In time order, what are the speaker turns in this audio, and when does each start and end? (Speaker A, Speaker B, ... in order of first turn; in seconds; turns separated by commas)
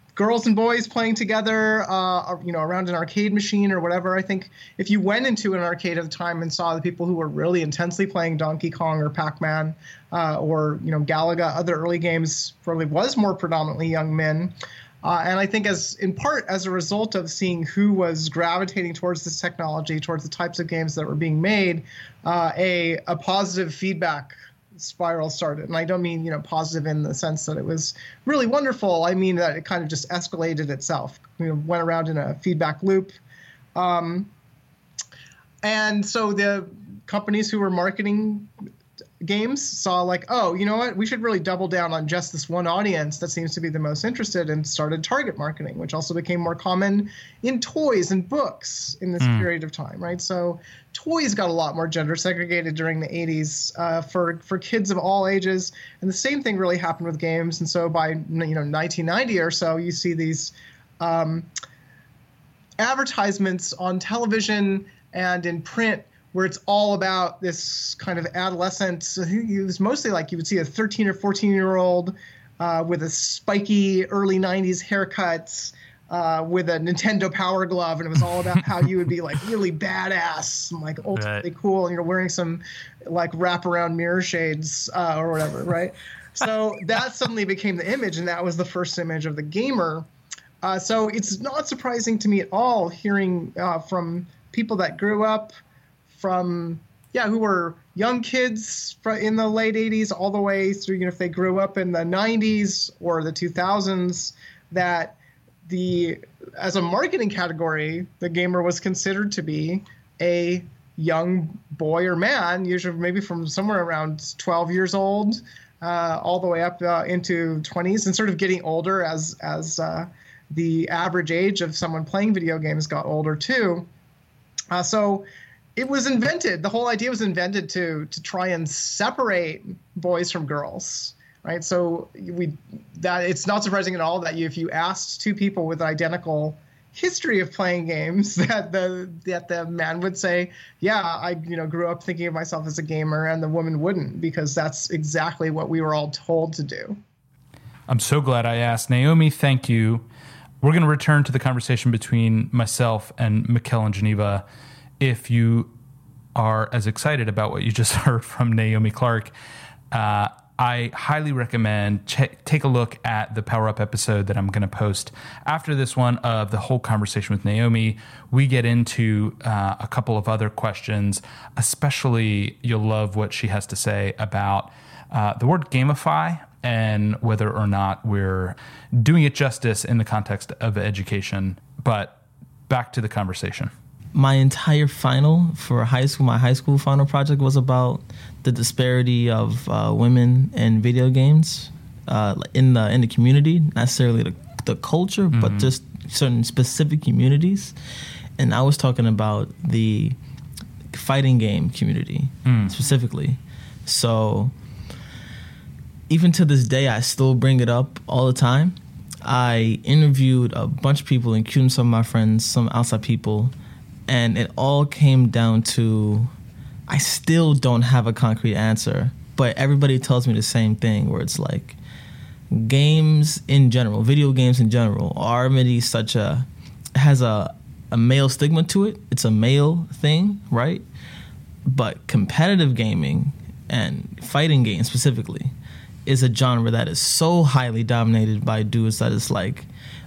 Speaker A: 0.1-33.2, Speaker A: 33.7-34.3, Speaker A: 35.6-38.5, Speaker A: 39.2-61.5, Speaker B: 49.2-49.5, Speaker A: 62.8-90.1, Speaker B: 81.1-81.5, Speaker A: 90.6-95.5, Speaker A: 96.1-123.9, Speaker A: 124.7-125.2, Speaker A: 125.8-147.0, Speaker B: 147.9-150.0, Speaker B: 150.6-154.4, Speaker B: 155.0-155.7, Speaker B: 156.3-159.3, Speaker B: 159.9-183.7, Speaker C: 184.1-197.7, Speaker B: 195.3-195.7, Speaker C: 198.4-200.2, Speaker C: 200.9-204.5, Speaker B: 202.4-202.7, Speaker C: 206.1-213.5, Speaker C: 214.1-216.3, Speaker C: 216.9-221.8, Speaker C: 222.5-230.8, Speaker C: 231.7-235.5, Speaker C: 236.1-239.7